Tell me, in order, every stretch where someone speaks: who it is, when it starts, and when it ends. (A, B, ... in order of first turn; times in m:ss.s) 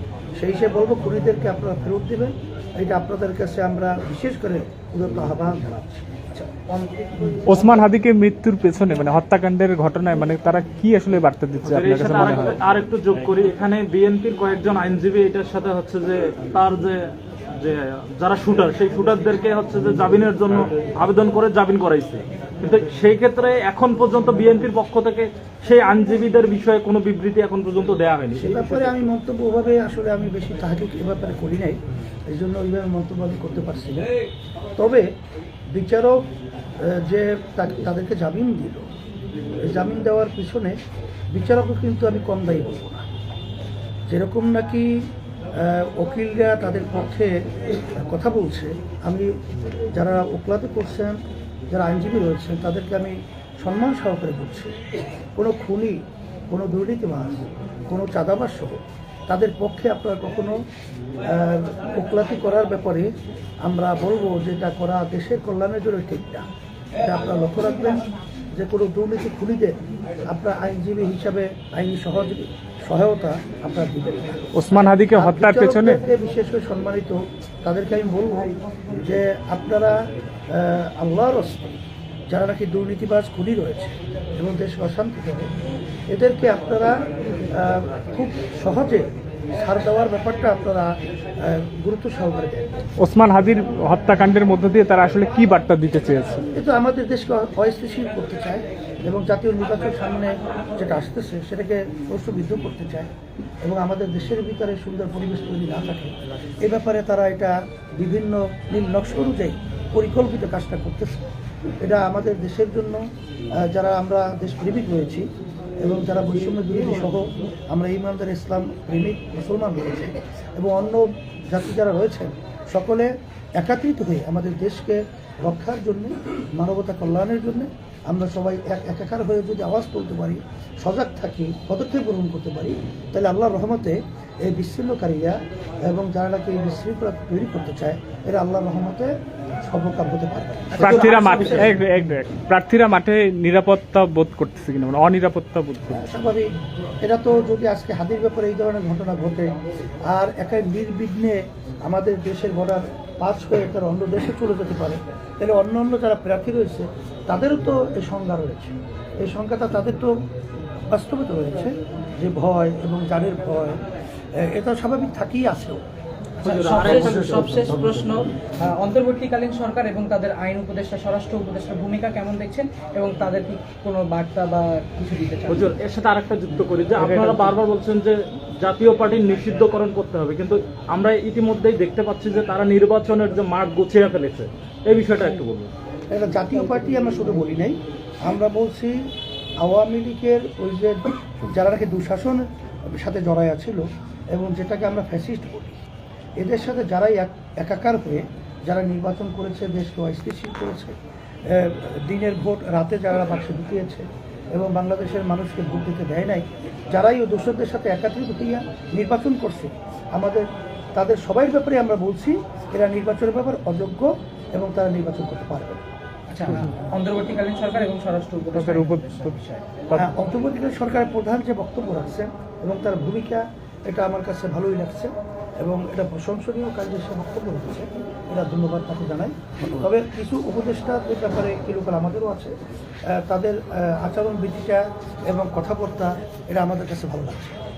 0:00.4-0:07.4 A
0:07.4-0:12.6 B
0:11.7-0:28.9 C
0:28.4-0:34.1 A
0:34.8-0:35.1 A
0:35.7-0:36.3 A
0:36.8-0:38.9 A
0:39.6-0:40.8 A
0:41.3-0:43.1 A
0:44.1-0:49.4 A
0:49.9-0:54.8 A
0:55.4-0:56.0 A
0:56.5-1:00.6 A
1:01.2-1:03.1 A
1:03.6-1:06.5 A
1:07.0-1:09.8 A
1:10.3-1:14.5 A
1:14.5-1:16.0 B
1:15.1-1:25.5 A
1:26.1-1:32.8 A
1:33.0-1:36.5 B
1:36.5-1:51.3 A
1:51.8-1:53.0 A
1:53.6-1:55.3 A
1:55.8-2:21.7 A
2:20.8-2:21.8 D
2:20.8-2:26.0 B
2:25.9-2:26.5 A
2:27.0-2:29.6 A
2:30.1-2:40.2 A
2:40.9-2:43.8 A
2:44.4-2:45.8 A
2:46.4-2:55.8 D
2:46.4-2:47.7 C
2:55.5-3:05.7 C
2:57.0-2:57.5 B
3:06.1-3:09.0 A
3:09.6-3:15.8 A
3:16.4-3:35.8 A
3:36.3-3:39.6 D
3:38.5-3:39.3 B
3:39.9-3:52.5 A
3:53.1-3:57.6 A